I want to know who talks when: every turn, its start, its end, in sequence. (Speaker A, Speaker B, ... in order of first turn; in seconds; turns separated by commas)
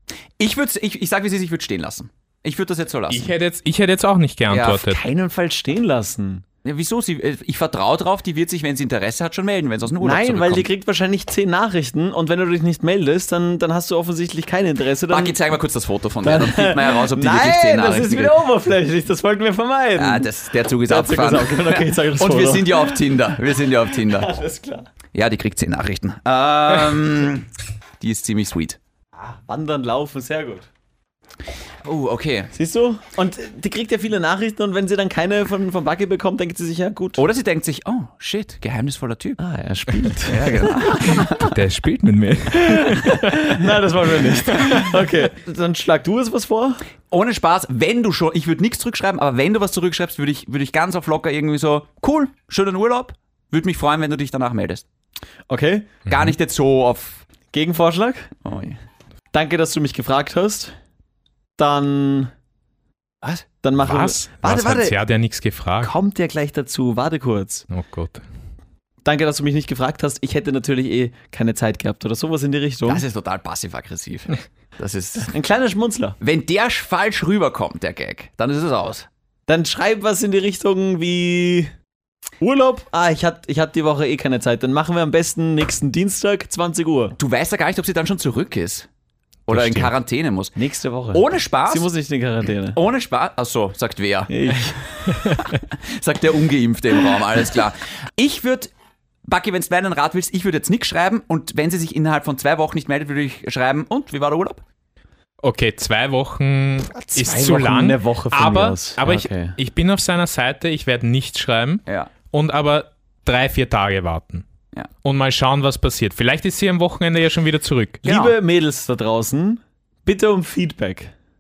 Speaker A: 0.4-3.3, Speaker B: 3.1-5.0, Speaker A: 4.5-4.9, Speaker C: 4.8-6.4, Speaker A: 6.6-10.7, Speaker C: 10.0-15.4, Speaker A: 15.1-18.4, Speaker C: 16.2-20.3, Speaker A: 20.0-24.3, Speaker C: 20.9-23.0, Speaker C: 23.9-24.9, Speaker A: 25.1-27.5, Speaker A: 28.0-28.8, Speaker C: 29.2-30.7, Speaker A: 31.8-32.5, Speaker C: 32.5-37.2, Speaker A: 37.2-39.4, Speaker C: 39.4-41.3, Speaker A: 40.1-41.5, Speaker B: 41.5-43.7, Speaker C: 42.6-46.8, Speaker B: 44.5-44.9, Speaker A: 47.1-54.9, Speaker C: 55.5-56.0, Speaker A: 56.1-57.2, Speaker C: 57.5-58.3, Speaker A: 58.4-58.8, Speaker C: 59.3-60.8, Speaker C: 61.6-62.3, Speaker A: 63.2-63.5, Speaker C: 63.6-65.0, Speaker B: 63.8-65.9, Speaker C: 65.8-67.7, Speaker B: 67.7-68.2, Speaker C: 69.0-73.0, Speaker A: 72.9-75.3, Speaker C: 75.3-76.2, Speaker A: 76.2-79.1, Speaker C: 79.5-81.7, Speaker C: 82.4-87.2, Speaker A: 87.2-88.9, Speaker A: 89.5-90.6, Speaker B: 89.5-89.9, Speaker C: 90.6-92.8, Speaker A: 91.1-91.9, Speaker A: 92.7-98.7, Speaker C: 94.3-94.8, Speaker A: 99.2-104.6, Speaker B: 105.4-114.4, Speaker C: 106.9-109.6, Speaker A: 111.9-112.1, Speaker B: 115.0-118.0, Speaker C: 118.0-121.1, Speaker A: 118.1-118.3